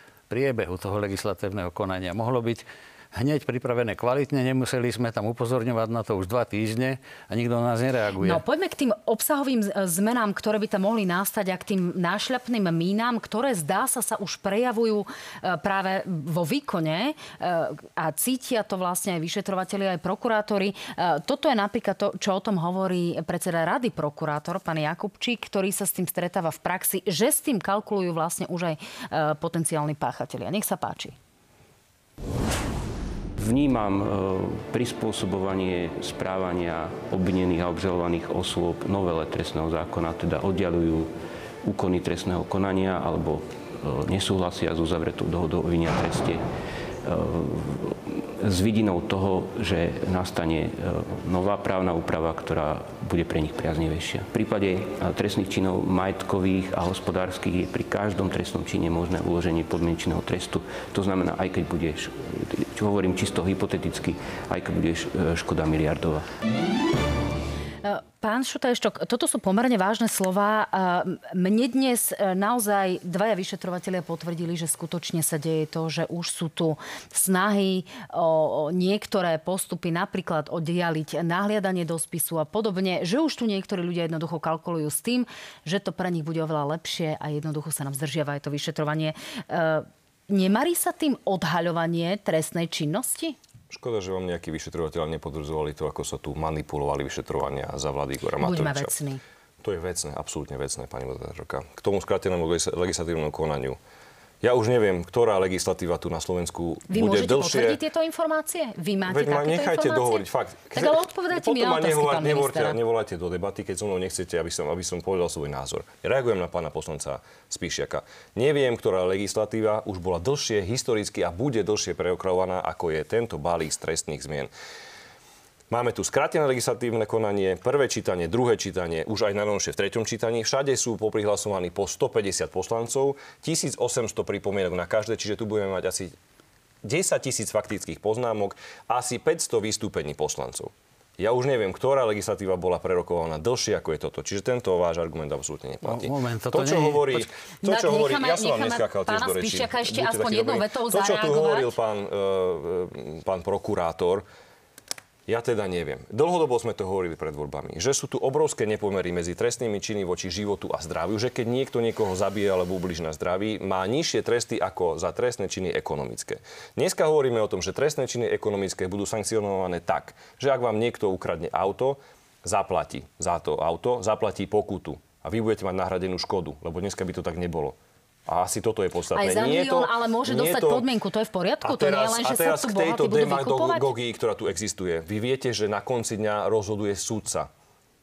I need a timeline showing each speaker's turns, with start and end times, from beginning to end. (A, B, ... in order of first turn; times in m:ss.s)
0:00.3-0:08.4 A
0:08.2-0:31.2 B
0:33.4-0:41.1 C
0:41.6-0:46.4 C
0:47.0-1:06.3 C
1:07.8-1:33.4 B
1:33.7-1:38.9 D
1:38.4-1:39.2 B
1:39.6-1:43.8 D
1:44.4-1:47.8 D
1:46.9-1:52.8 B
1:49.1-2:04.5 D
2:05.7-2:16.2 D
2:16.8-2:34.3 D
2:25.8-2:27.3 A
2:27.6-2:31.7 B
2:35.3-3:00.9 D
2:59.2-3:03.9 B
3:01.6-3:07.5 D